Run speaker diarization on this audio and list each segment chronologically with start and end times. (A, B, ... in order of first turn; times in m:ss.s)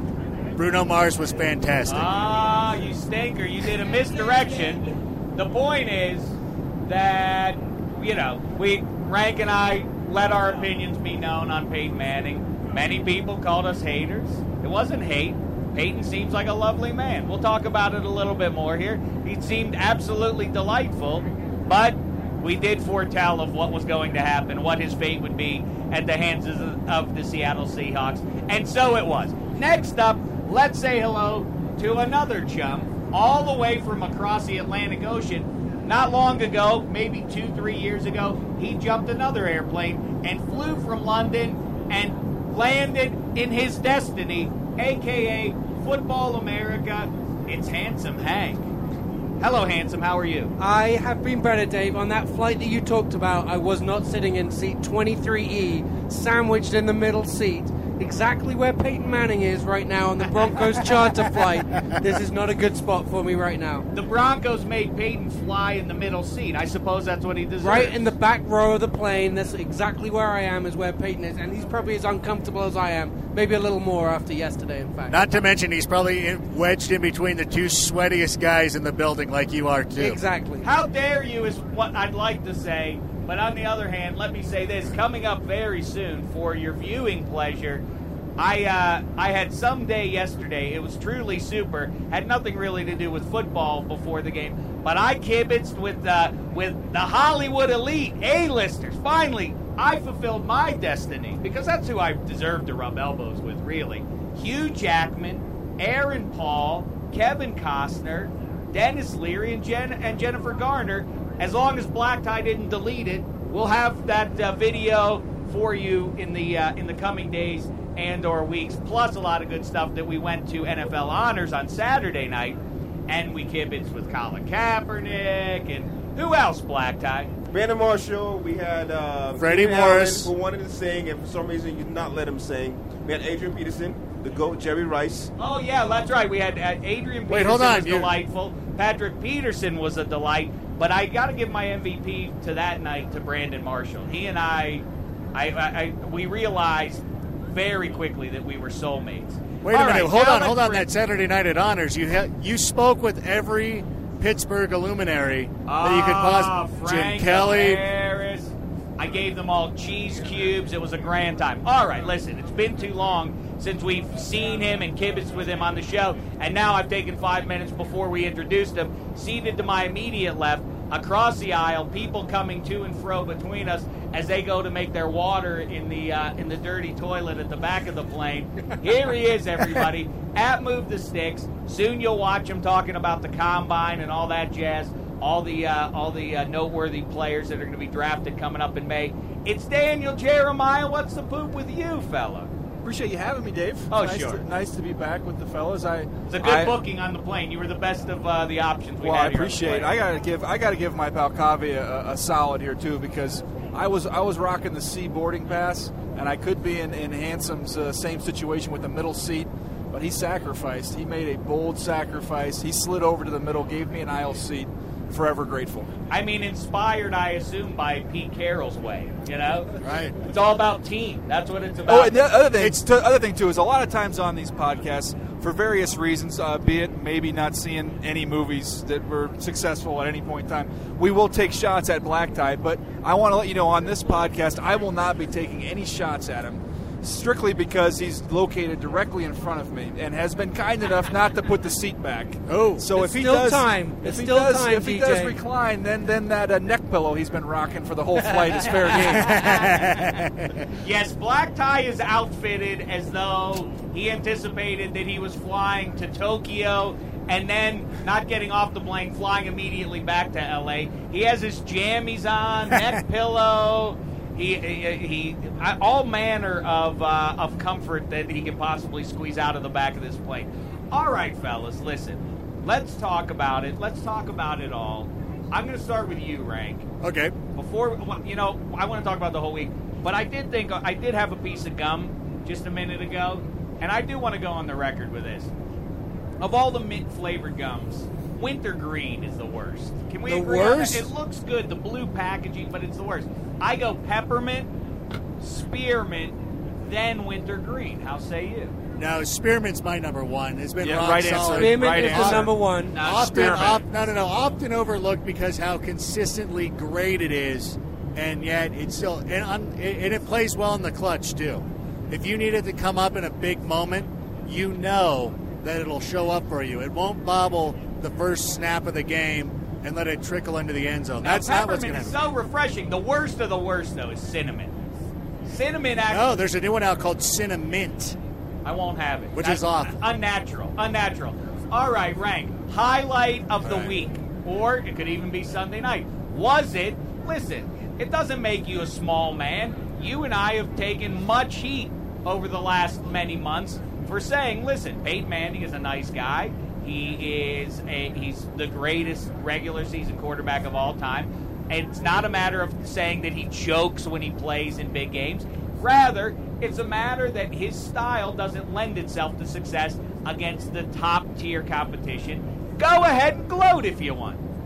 0:00.6-0:02.1 A
0:01.9-0:48.6 B
0:49.4-0:50.5 B
0:50.6-1:03.8 C
1:03.9-1:08.0 B
1:07.6-1:15.3 C
1:15.1-1:20.2 A
1:20.0-1:20.7 C
1:20.6-1:27.8 B
1:28.4-2:07.3 B
2:07.5-2:15.3 D
2:09.4-2:10.3 A
2:15.4-2:30.9 B
2:17.3-2:18.1 A
2:29.6-2:37.8 A
2:35.6-3:12.5 B
3:12.8-3:16.8 E
3:13.9-3:14.4 B
3:16.3-3:20.0 B
3:19.0-3:35.9 E
3:36.1-3:42.2 B
3:39.8-3:40.2 A
3:41.9-4:09.4 E
3:42.6-3:42.8 A
4:02.5-4:02.9 A
4:02.9-4:05.3 C
4:08.9-4:10.2 B
4:09.1-4:10.6 A
4:10.8-4:36.8 B
4:37.0-4:37.3 A
4:37.5-4:45.5 B
4:46.4-4:54.7 B
4:50.2-4:51.1 A
4:55.4-4:58.7 B
4:59.0-5:02.4 A
5:00.8-5:02.5 E
5:01.4-5:03.0 C
5:02.9-5:03.8 B
5:03.0-5:22.1 A
5:03.1-5:03.7 E
5:21.2-5:24.7 B
5:25.4-5:26.3 B
5:26.1-5:28.2 A
5:28.6-6:04.4 B
5:29.3-5:30.0 A
5:33.6-5:33.9 A